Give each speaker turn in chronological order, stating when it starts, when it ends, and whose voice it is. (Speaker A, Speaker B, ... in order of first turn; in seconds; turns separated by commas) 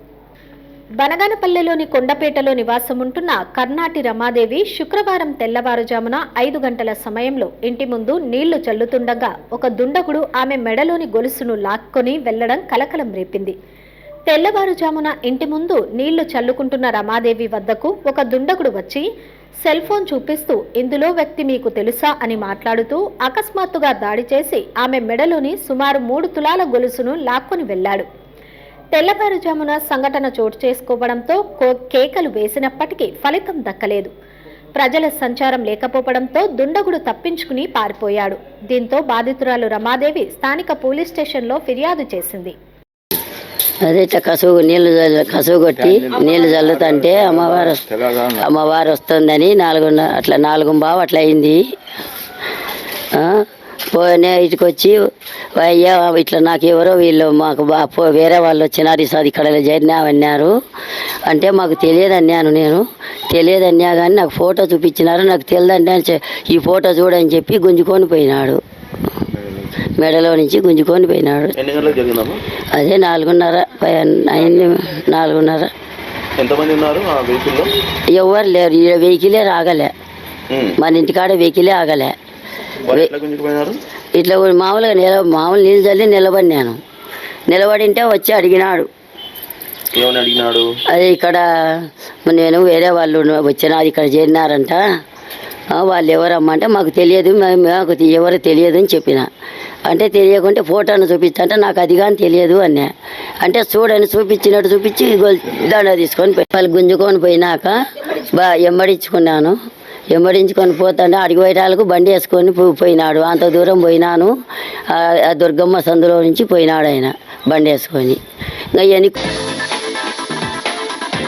Speaker A: 1.0-13.6, Speaker A: 14.3-19.1, Speaker A: 19.6-28.1, Speaker A: 28.9-34.1, Speaker A: 34.8-42.5, Speaker B: 43.9-51.6, Speaker B: 53.1-55.0, Speaker B: 55.5-60.5, Speaker B: 61.2-68.6, Speaker B: 69.9-71.6, Speaker C: 71.6-72.4, Speaker B: 72.7-75.7, Speaker C: 76.4-77.7, Speaker B: 78.1-79.9, Speaker C: 80.5-80.8, Speaker B: 80.8-82.2, Speaker C: 82.9-83.8, Speaker B: 84.2-86.8, Speaker B: 87.5-88.9, Speaker C: 89.9-90.7, Speaker B: 90.9-94.8, Speaker B: 95.7-99.3, Speaker B: 99.8-102.9, Speaker B: 103.4-109.6, Speaker B: 110.1-114.3, Speaker B: 114.9-118.2, Speaker B: 118.7-119.2